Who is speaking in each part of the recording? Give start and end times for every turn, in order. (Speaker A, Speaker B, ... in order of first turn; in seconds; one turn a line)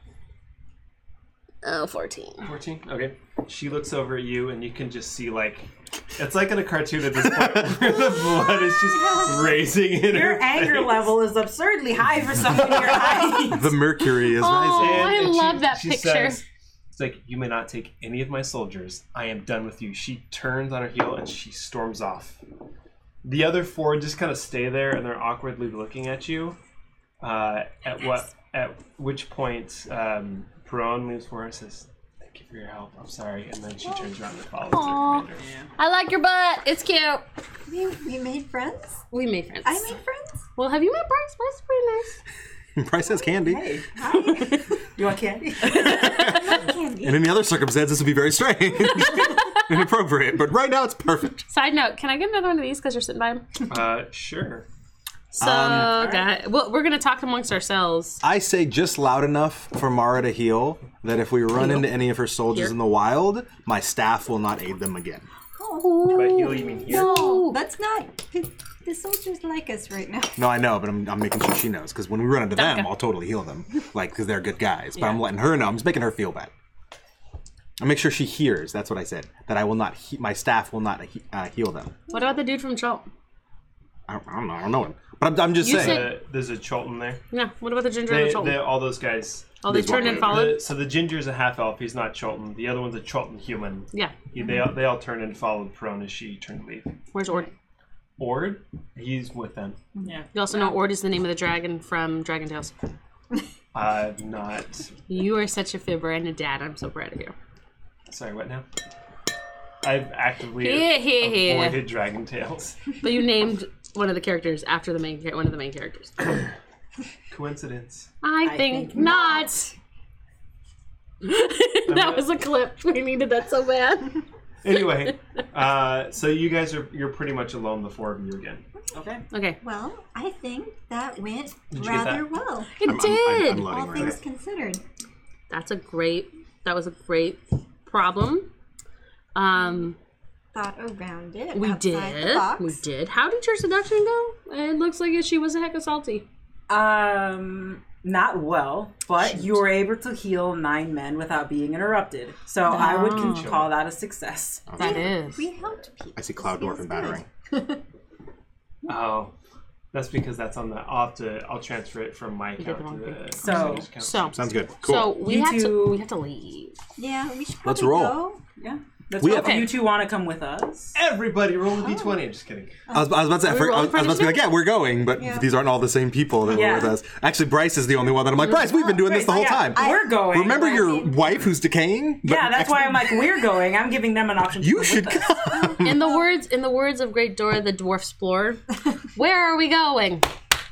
Speaker A: 1.6-2.5
Speaker B: 2.4-11.1
Speaker C: 8.1-9.6
Speaker D: 10.0-13.7
Speaker B: 12.4-13.5
Speaker E: 13.4-15.2
Speaker A: 14.2-16.4
Speaker B: 14.7-22.4
Speaker B: 23.2-26.6
Speaker B: 27.2-35.5
Speaker A: 34.7-37.2
Speaker D: 35.4-35.7
Speaker C: 37.7-39.0
Speaker A: 39.1-39.9
Speaker C: 39.6-40.4
Speaker A: 40.6-42.2
Speaker E: 42.8-43.7
Speaker D: 43.4-46.5
Speaker C: 43.9-44.8
Speaker E: 45.7-51.5
Speaker C: 45.9-47.2
Speaker A: 49.0-49.6
Speaker A: 51.5-53.4
Speaker B: 53.7-54.6
Speaker A: 55.3-58.2
Speaker E: 55.4-56.1
Speaker E: 58.2-65.3
Speaker A: 61.6-61.8
Speaker C: 65.6-70.4
Speaker A: 65.8-67.6
Speaker B: 66.1-67.4
Speaker E: 70.4-76.5
Speaker A: 72.5-72.9
Speaker E: 77.8-82.0
Speaker A: 82.1-83.1
Speaker E: 84.1-86.1
Speaker A: 85.6-86.1
Speaker B: 85.6-87.2
Speaker A: 87.3-88.7
Speaker B: 88.1-96.9
Speaker A: 89.6-90.6
Speaker E: 89.7-90.5
Speaker A: 97.1-97.5
Speaker B: 98.2-99.8
Speaker D: 100.0-100.8
Speaker A: 100.3-102.8
Speaker B: 103.7-104.9
Speaker A: 105.1-107.3
Speaker B: 108.1-108.7
Speaker B: 109.8-112.8
Speaker A: 110.6-111.8
Speaker A: 113.0-116.3
Speaker B: 117.3-118.1
Speaker A: 118.2-119.7
Speaker D: 118.5-119.5
Speaker A: 121.2-124.2
Speaker B: 121.9-122.2
Speaker B: 124.6-128.6
Speaker D: 128.9-129.2
Speaker A: 129.3-129.6
Speaker C: 129.6-132.8
Speaker B: 131.7-132.3
Speaker A: 132.8-133.7
Speaker E: 132.8-134.2
Speaker C: 133.6-134.8
Speaker A: 135.5-138.5
Speaker A: 139.3-140.0
Speaker C: 140.5-142.8
Speaker A: 141.5-146.2
Speaker D: 146.7-154.7
Speaker A: 152.7-153.6
Speaker B: 153.0-153.7
Speaker E: 154.7-155.1
Speaker C: 154.8-157.8
Speaker A: 154.8-155.5
Speaker E: 156.2-157.3
Speaker B: 158.9-159.3
Speaker B: 159.9-164.5
Speaker A: 162.6-166.8
Speaker D: 163.4-163.9
Speaker E: 164.4-165.2
Speaker D: 165.0-166.0
Speaker C: 167.0-168.4
Speaker E: 167.6-168.2
Speaker D: 168.6-171.0
Speaker E: 169.2-169.8
Speaker A: 169.2-169.7
Speaker B: 170.9-172.8
Speaker C: 171.8-172.2
Speaker C: 172.9-173.2
Speaker E: 172.9-183.3
Speaker A: 173.4-174.5
Speaker C: 175.2-175.5
Speaker D: 176.5-177.0
Speaker C: 178.5-179.0
Speaker D: 178.8-181.1
Speaker C: 179.7-181.2
Speaker D: 182.2-185.3
Speaker E: 184.6-186.0
Speaker C: 185.5-186.2
Speaker A: 185.8-188.6
Speaker A: 189.1-190.3